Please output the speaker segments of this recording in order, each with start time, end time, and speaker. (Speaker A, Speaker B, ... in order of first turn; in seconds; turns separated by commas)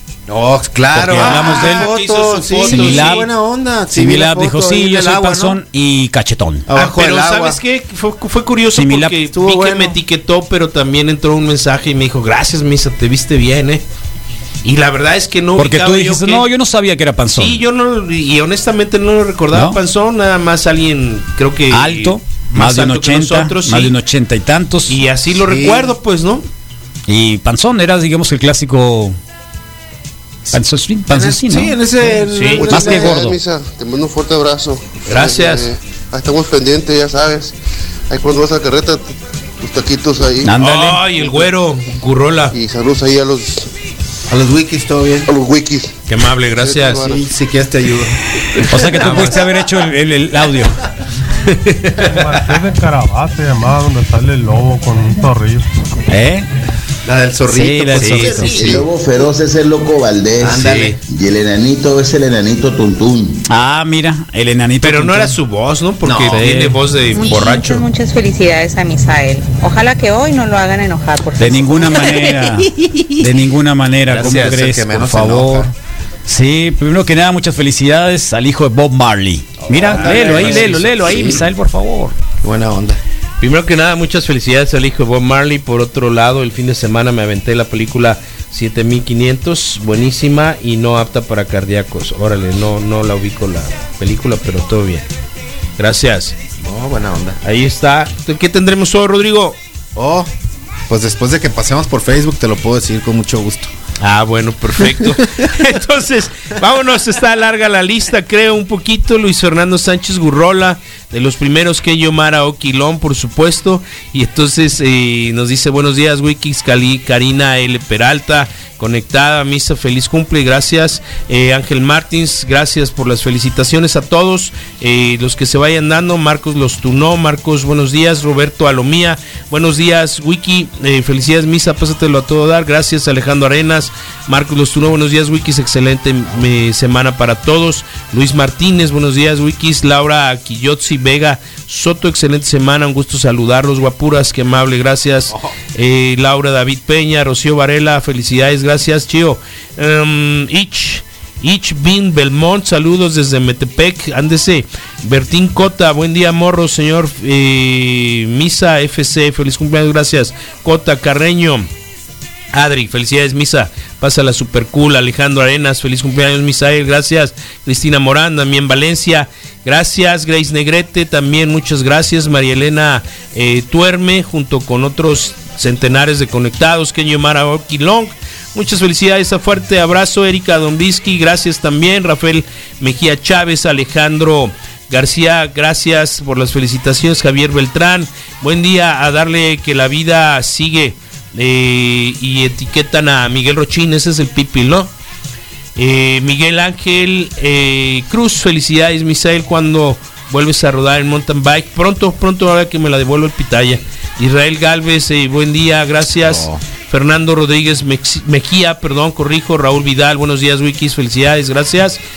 Speaker A: 0.3-5.6, Speaker B: 0.9-1.9, Speaker C: 1.1-3.3, Speaker B: 2.7-3.3, Speaker B: 3.9-6.7, Speaker A: 6.7-7.6, Speaker C: 6.7-13.8, Speaker B: 8.7-9.1, Speaker A: 9.3-10.0, Speaker C: 14.6-16.4, Speaker B: 15.6-17.6, Speaker C: 17.4-23.9, Speaker B: 19.5-19.8, Speaker B: 21.7-25.0, Speaker C: 24.9-26.4, Speaker A: 25.4-25.9, Speaker B: 27.1-29.2, Speaker B: 30.5-31.8, Speaker A: 31.1-33.2, Speaker C: 32.3-32.8, Speaker D: 32.5-37.5, Speaker B: 32.7-33.4, Speaker C: 35.1-35.7, Speaker D: 38.1-40.5, Speaker B: 40.4-41.0, Speaker C: 40.6-42.5, Speaker D: 42.5-43.7, Speaker A: 44.3-45.3, Speaker D: 45.3-45.9, Speaker C: 46.1-47.1, Speaker D: 46.5-47.2, Speaker A: 47.0-48.2, Speaker B: 48.7-50.8, Speaker C: 48.8-49.4, Speaker C: 51.4-52.2, Speaker E: 52.0-55.7, Speaker B: 56.1-56.5, Speaker A: 57.0-58.9, Speaker B: 57.5-58.5, Speaker C: 58.0-58.5, Speaker F: 58.5-63.4, Speaker A: 60.4-61.0, Speaker C: 60.5-61.0, Speaker B: 63.5-65.3, Speaker C: 64.8-67.8, Speaker A: 66.0-66.5, Speaker B: 66.4-66.8, Speaker G: 67.1-72.3, Speaker B: 71.4-75.7, Speaker A: 74.1-75.7, Speaker C: 74.2-74.5, Speaker B: 76.3-82.1, Speaker A: 79.7-81.4, Speaker C: 79.8-81.3, Speaker A: 82.4-83.0, Speaker C: 83.4-95.0, Speaker C: 95.8-96.3, Speaker A: 96.6-97.4, Speaker C: 97.4-99.5, Speaker A: 99.9-100.3, Speaker A: 100.9-103.7, Speaker C: 104.0-161.7, Speaker C: 162.5-194.9, Speaker C: 195.8-212.0, Speaker A: 206.2-206.6